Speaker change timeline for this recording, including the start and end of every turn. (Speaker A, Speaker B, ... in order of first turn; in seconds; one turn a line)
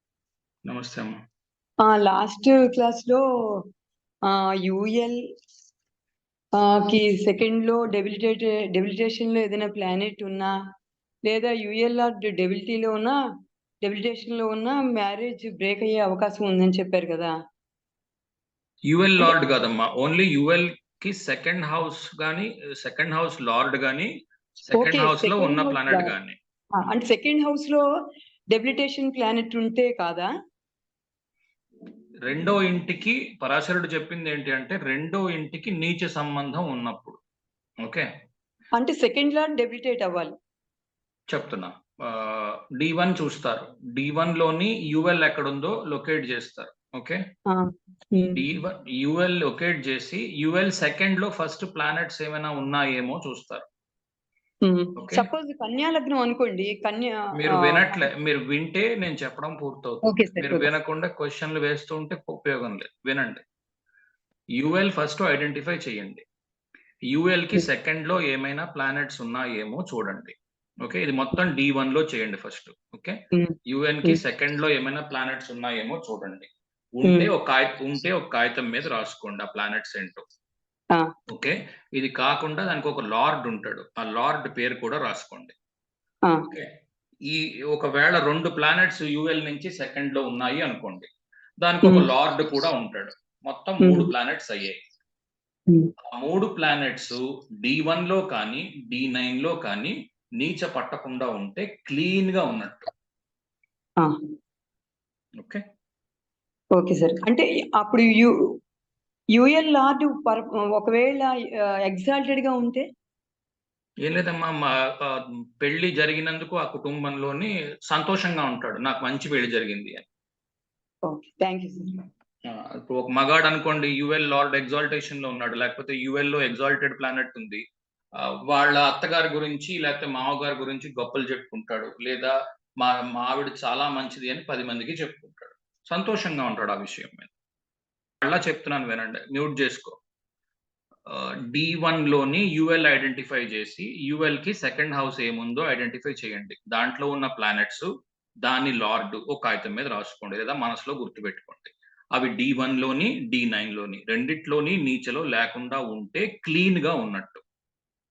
Speaker A: 0.6-1.2
Speaker B: 1.8-3.2
Speaker B: 4.3-5.2
Speaker B: 6.6-10.5
Speaker B: 11.2-13.2
Speaker B: 13.8-17.3
Speaker A: 18.9-24.1
Speaker A: 24.6-26.4
Speaker B: 24.7-26.1
Speaker B: 26.8-27.8
Speaker B: 28.5-30.3
Speaker A: 32.2-37.2
Speaker B: 38.8-40.3
Speaker A: 41.3-47.2
Speaker B: 47.5-48.4
Speaker A: 48.3-53.6
Speaker B: 54.6-58.0
Speaker A: 55.0-55.3
Speaker A: 57.3-63.4
Speaker B: 60.0-60.7
Speaker A: 64.6-66.2
Speaker A: 67.1-73.1
Speaker B: 73.3-74.2
Speaker A: 73.7-80.2
Speaker B: 77.0-77.3
Speaker A: 81.3-85.5
Speaker A: 87.3-91.1
Speaker A: 91.6-94.8
Speaker B: 93.8-94.1
Speaker A: 96.1-102.9
Speaker B: 106.7-108.3
Speaker B: 109.3-112.8
Speaker A: 114.0-120.0
Speaker B: 121.1-122.0
Speaker A: 122.5-127.6
Speaker A: 128.5-137.3
Speaker A: 138.2-140.0
Speaker A: 141.1-147.9
Speaker A: 148.4-157.4